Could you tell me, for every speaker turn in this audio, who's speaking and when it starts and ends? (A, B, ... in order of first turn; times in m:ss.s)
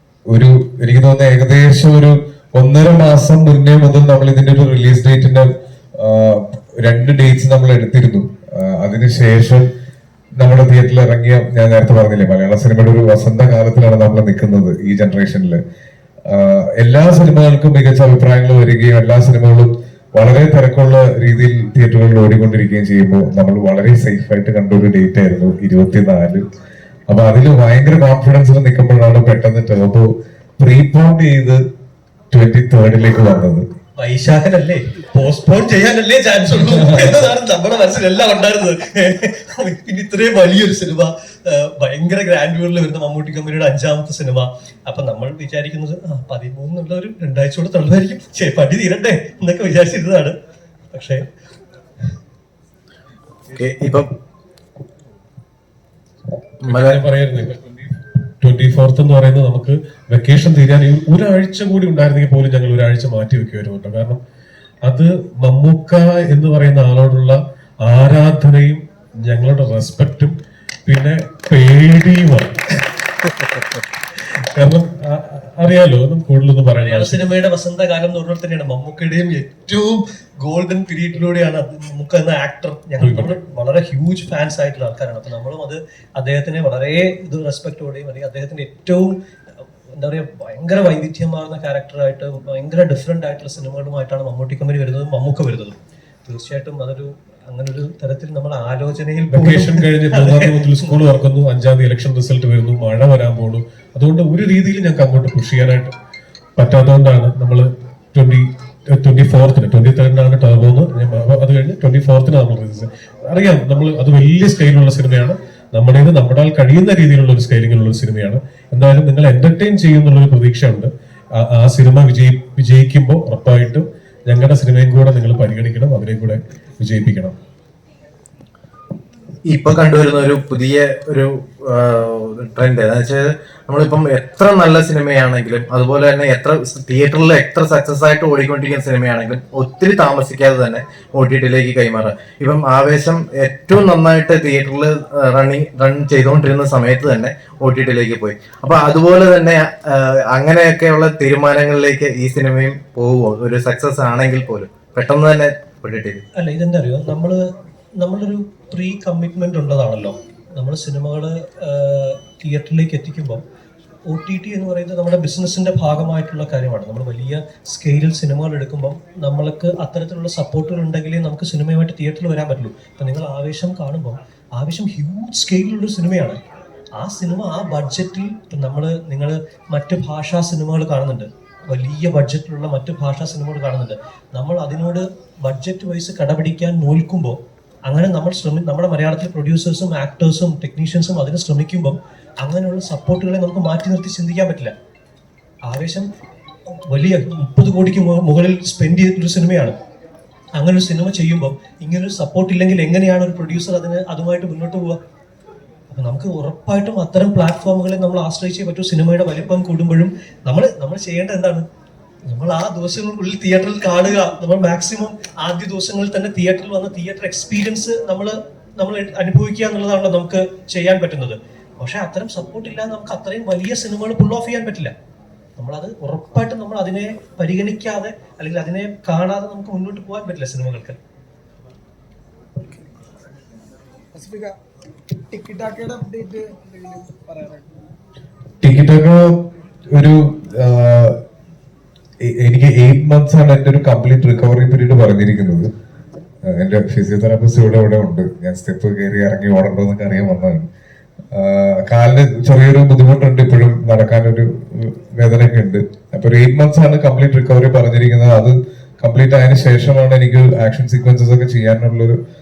0:00.3-0:09.7 A
0:10.4-0:15.6 A
0:16.3-0:26.4 A
0:27.1-0:31.6 A
0:32.3-0:33.6 A
0:34.0-0:50.4 B
0:50.9-0:51.2 B
0:53.6-0:54.1 C
0:56.6-1:04.2 D
0:56.7-0:57.0 C
1:04.8-1:10.4 D
1:10.9-1:12.6 D
1:14.6-1:17.4 D
1:16.8-1:29.2 B
1:23.0-1:23.4 D
1:30.0-1:41.1 B
1:39.3-1:45.9 D
1:46.6-2:07.4 D
2:09.5-2:36.2 C
2:36.4-2:37.4 B
2:38.0-2:43.4 B
2:44.1-2:56.4 B
2:56.9-3:14.7 B
3:15.6-3:16.1 B
3:16.9-3:19.8 B
3:20.6-3:25.0 B
3:25.9-3:31.6 B
3:32.3-3:44.9 B
3:45.6-3:51.0 B
3:54.1-3:54.5 E
3:55.2-3:57.8 E
3:58.6-3:59.4 A
3:59.9-4:01.2 A
4:02.2-4:05.7 A
4:06.4-4:10.7 A
4:11.3-4:22.2 A